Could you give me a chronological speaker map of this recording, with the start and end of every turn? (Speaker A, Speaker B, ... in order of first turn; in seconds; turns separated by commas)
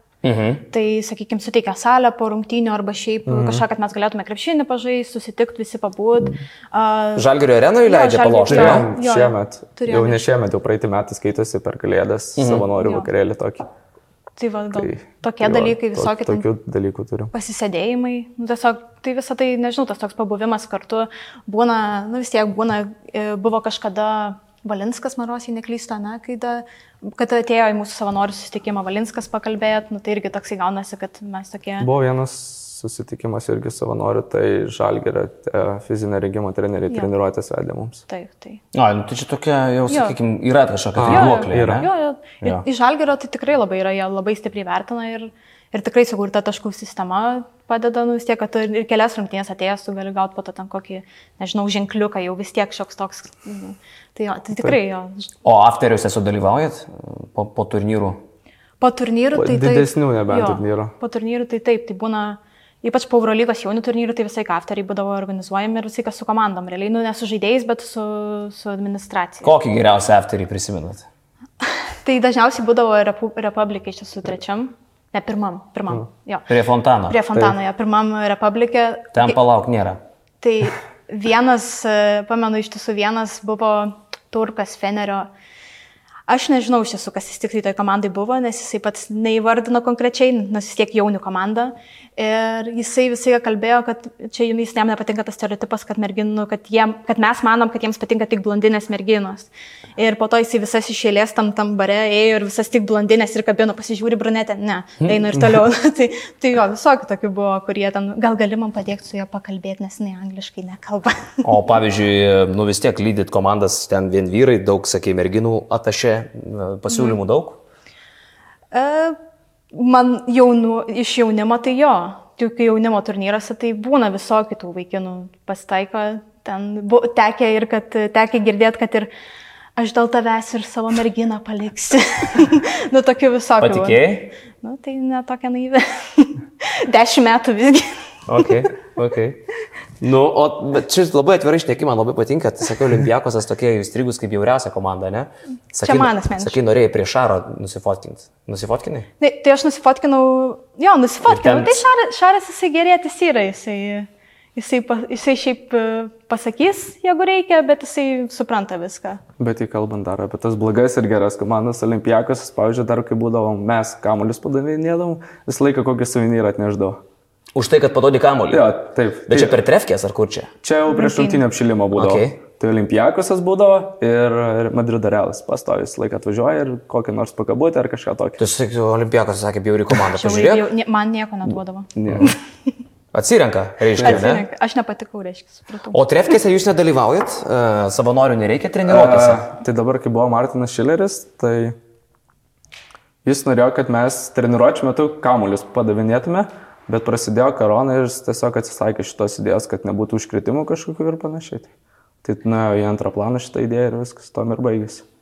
Speaker A: 0.2-0.6, Speaker B: 0.7-7.3, Speaker C: 3.3-3.6, Speaker A: 7.2-8.9, Speaker B: 7.8-10.2, Speaker C: 8.5-13.7, Speaker A: 12.3-12.7, Speaker B: 12.8-13.1, Speaker B: 14.4-16.4, Speaker C: 14.7-17.3, Speaker B: 17.3-31.9, Speaker C: 31.8-38.0, Speaker B: 38.1-38.6, Speaker A: 38.7-41.9, Speaker B: 39.9-40.1, Speaker C: 41.0-41.9, Speaker B: 41.1-55.3, Speaker A: 55.4-58.2, Speaker B: 58.8-69.5, Speaker C: 59.3-60.9, Speaker A: 69.4-71.0, Speaker B: 72.0-76.5, Speaker A: 76.5-77.3, Speaker B: 77.1-79.3, Speaker A: 79.1-80.0, Speaker B: 80.4-85.3, Speaker B: 86.3-111.4, Speaker A: 111.4-117.6, Speaker B: 118.7-119.2, Speaker B: 119.7-129.1, Speaker B: 129.8-138.6, Speaker A: 133.6-134.3, Speaker A: 138.3-139.4, Speaker A: 140.0-149.1, Speaker B: 145.8-146.6, Speaker B: 149.2-159.2, Speaker A: 151.3-151.8, Speaker C: 159.4-167.0, Speaker A: 167.5-168.7, Speaker C: 168.5-169.6, Speaker A: 169.3-170.5, Speaker C: 170.6-178.4, Speaker B: 170.9-171.4, Speaker A: 171.9-172.3, Speaker A: 178.4-180.7, Speaker B: 180.1-182.3, Speaker C: 181.9-182.3, Speaker A: 183.1-184.4, Speaker C: 183.9-184.3, Speaker B: 184.0-186.0, Speaker A: 185.9-189.5, Speaker C: 188.8-191.7, Speaker C: 193.2-201.7, Speaker C: 202.2-205.0